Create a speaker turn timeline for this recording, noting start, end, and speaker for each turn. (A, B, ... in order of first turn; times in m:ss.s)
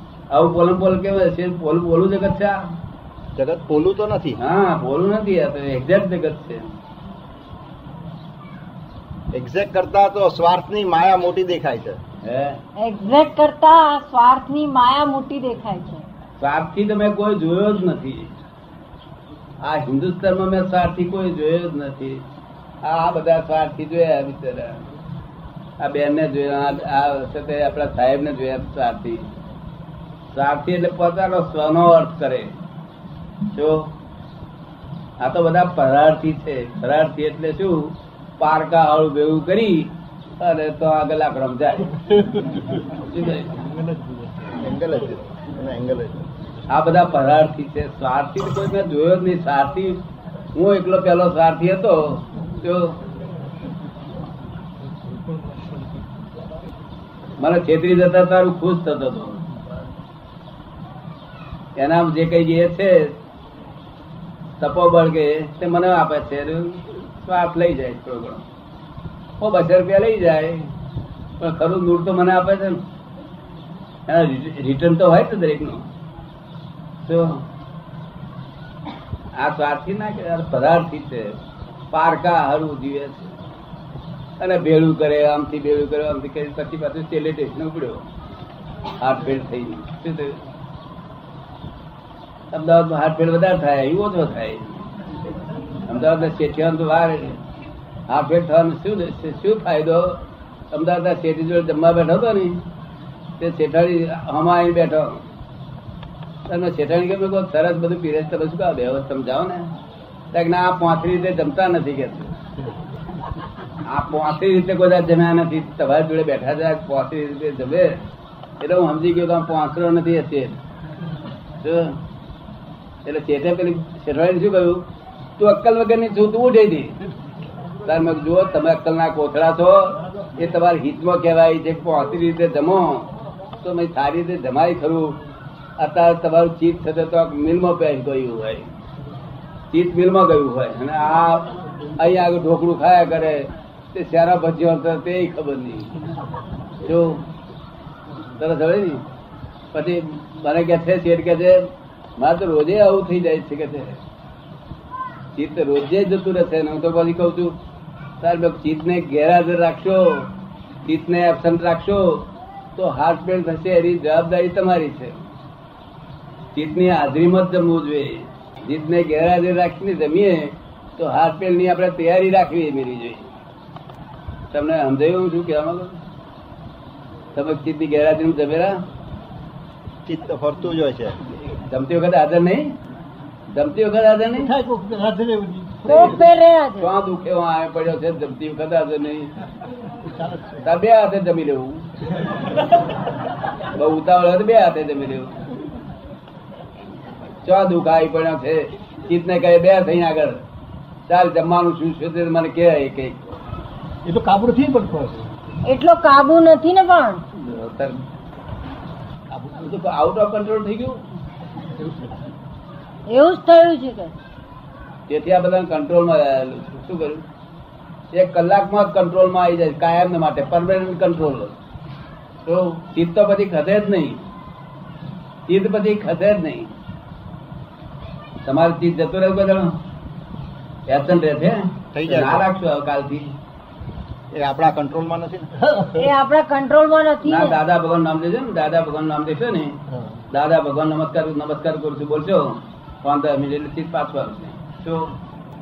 0:00.3-0:02.6 A
0:03.4-0:04.4 B
0:04.4-0:06.7 A
0:09.3-0:12.0 B
0:12.2-0:12.6 A
0:12.8-0:16.0 C
0:16.4-0:18.3 A
0:19.6-0:22.2 A
0:22.8-0:24.9 A
0:25.8-0:29.3 A
0:30.3-0:32.5 A
0:33.5-0:33.9 A
0:35.2-0:41.9 A
0:43.0-0:43.5 A
0:43.8-0:44.2 D
0:44.5-0:46.2 B
0:46.7-0:50.0 A
0:50.5-0:53.0 A
0:57.4-0:59.4 A
1:01.8-1:03.2 A
1:04.6-1:08.4 A
1:09.4-1:10.7 A
1:11.4-1:12.8 A
1:14.1-1:15.8 A
1:17.0-1:17.4 A
1:19.3-1:21.4 A
1:21.9-1:23.3 A
1:24.4-1:28.1 A
1:29.0-1:30.4 A
1:32.5-1:34.9 A
1:35.8-1:37.4 A
1:38.1-1:42.6 A
1:43.4-1:45.2 A
1:46.5-1:49.7 A
1:50.3-1:52.3 A
1:53.8-1:58.0 A
1:58.6-2:00.6 A
2:01.6-2:02.0 A
2:03.0-2:04.8 A
2:05.4-2:07.0 A
2:07.8-2:15.2 A
2:15.8-2:18.7 A
2:19.7-2:26.0 A
2:26.8-2:27.3 A
2:28.3-2:29.0 A
2:29.7-2:34.0 A
2:35.3-2:37.6 A
2:38.2-2:40.3 A
2:40.8-2:45.2 A
2:46.5-2:53.3 A
2:54.5-2:56.0 A
2:57.3-2:58.8 A
3:00.0-3:01.2 B
3:01.5-3:02.7 A
3:03.5-3:04.5 A
3:04.5-3:05.9 D
3:05.9-3:06.9 C
3:05.9-3:06.2 A
3:06.8-3:09.3 A
3:10.6-3:11.9 A
3:13.7-3:15.4 A
3:17.4-3:20.4 A
3:21.1-3:23.3 A
3:24.0-3:25.3 D
3:25.6-3:27.2 C
3:27.4-3:28.0 A
3:29.4-3:31.0 A
3:33.1-3:34.1 C
3:35.1-3:37.2 A
3:38.1-3:41.6 A
3:42.4-3:44.2 A
3:45.5-3:46.7 A
3:48.4-3:49.7 A
3:50.9-3:53.3 A
3:51.9-3:52.4 B
3:54.3-3:55.5 B
3:55.9-3:57.6 C
3:57.2-3:59.8 A
4:00.3-4:05.1 A